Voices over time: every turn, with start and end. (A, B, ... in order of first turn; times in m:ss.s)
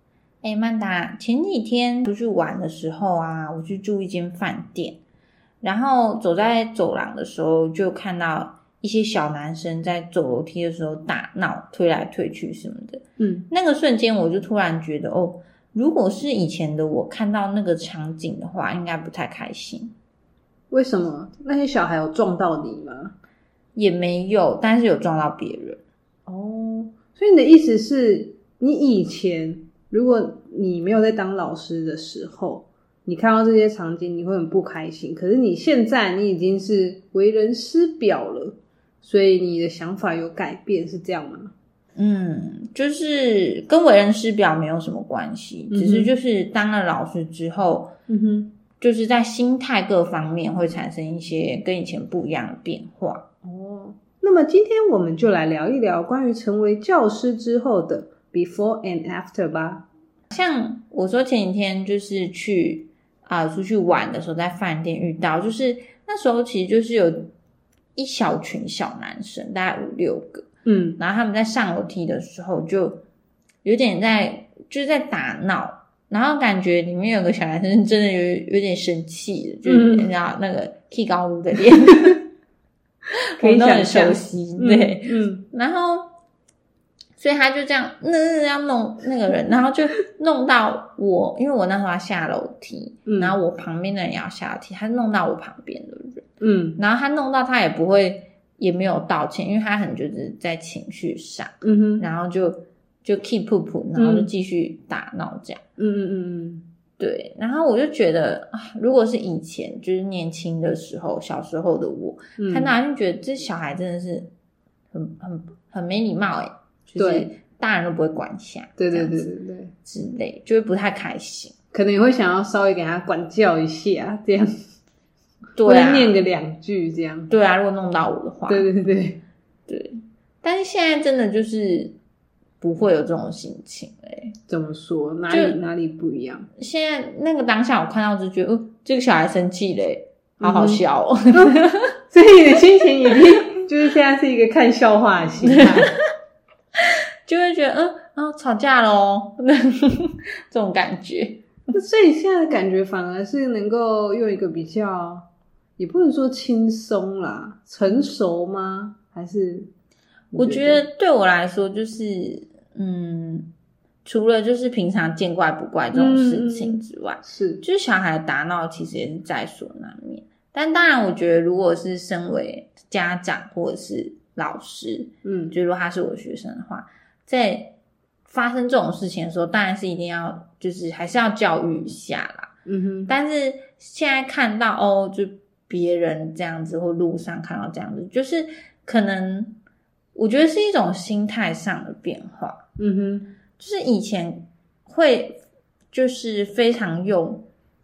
0:00.4-0:05.0 A
0:05.6-0:19.9 A
0:13.2-0:13.5 B
0:20.7-0:23.2 B
0:23.8-0:25.8 A
0:26.3-0:41.5 B
0:42.0-0:47.9 A
0:45.7-0:46.1 B
0:48.1-0:48.6 B
0:48.8-0:53.2 A
0:53.4-0:59.9 B
1:00.3-1:07.3 A
1:08.0-1:10.5 A
1:10.7-1:11.0 B
1:11.0-1:13.0 A
1:13.6-1:22.3 A
1:19.6-1:20.1 B
1:23.4-1:25.4 B
1:23.4-1:26.1 A
1:27.2-1:36.2 A
1:33.1-1:33.4 B
1:36.4-1:36.8 B
1:36.8-1:45.6 A
1:41.6-1:42.1 B
1:44.0-1:44.3 B
1:45.8-1:46.7 B
1:47.0-1:54.3 A
1:52.4-1:52.8 B
1:54.9-1:59.3 A
1:57.0-1:57.3 B
1:58.8-1:59.7 B
1:59.8-2:01.5 A
2:01.7-2:04.5 B
2:05.6-2:06.2 A
2:05.6-2:07.3 B
2:07.3-2:08.7 A
2:08.5-2:09.2 B
2:09.7-2:12.0 A
2:12.6-2:14.4 A
2:14.5-2:16.5 B
2:15.3-2:15.6 A
2:16.6-2:21.9 A
2:20.4-2:20.8 B
2:22.1-2:25.9 B
2:27.3-2:31.5 A
2:31.7-2:35.3 B
2:35.8-2:39.7 B
2:40.3-2:40.8 B
2:40.4-2:43.5 A
2:44.0-2:57.8 A
2:45.9-2:47.6 B
2:55.2-2:55.6 B
2:58.3-3:02.5 A
3:02.7-3:03.2 B
3:03.1-3:09.6 A
3:10.2-3:12.6 A
3:12.8-3:13.3 B
3:13.6-3:17.5 A